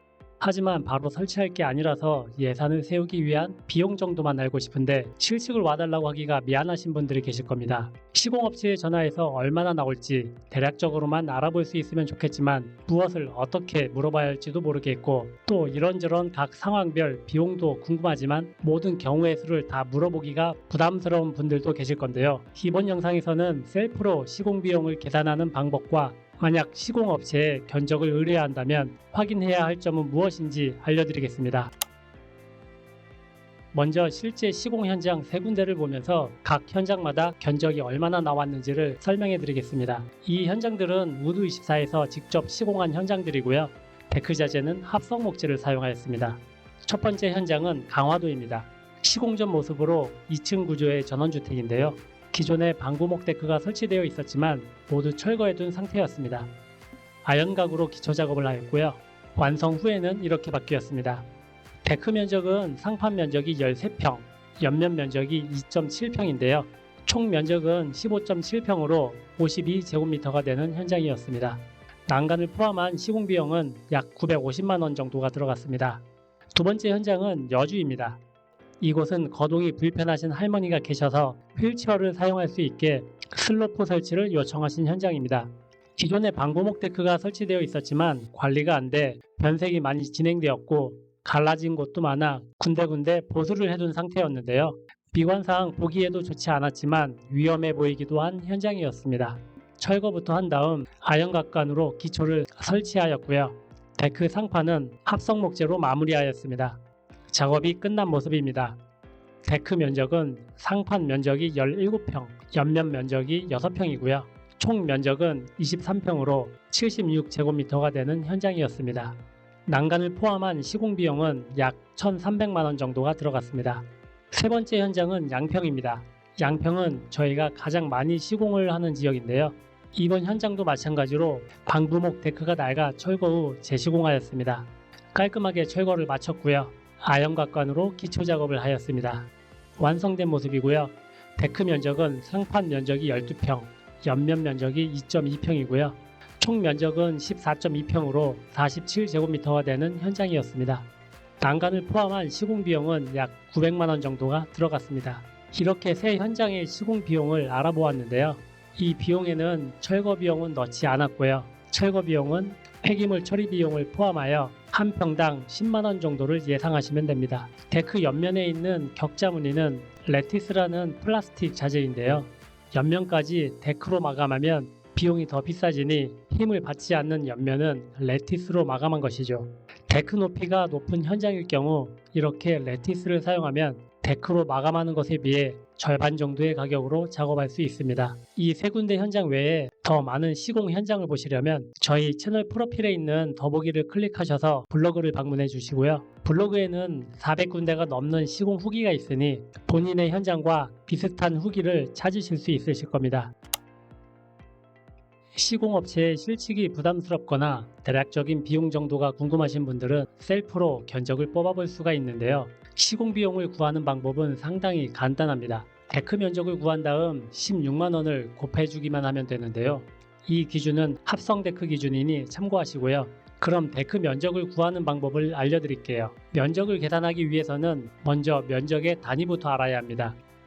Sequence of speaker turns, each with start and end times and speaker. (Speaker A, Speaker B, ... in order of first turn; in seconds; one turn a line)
Speaker A: 0.4-31.7
Speaker A: 33.7-56.5
Speaker A: 57.2-61.2
Speaker A: 61.8-76.0
Speaker A: 76.5-78.2
Speaker A: 78.8-106.8
Speaker A: 107.3-108.8
Speaker A: 109.4-150.9
Speaker A: 151.4-203.3
Speaker A: 205.3-230.2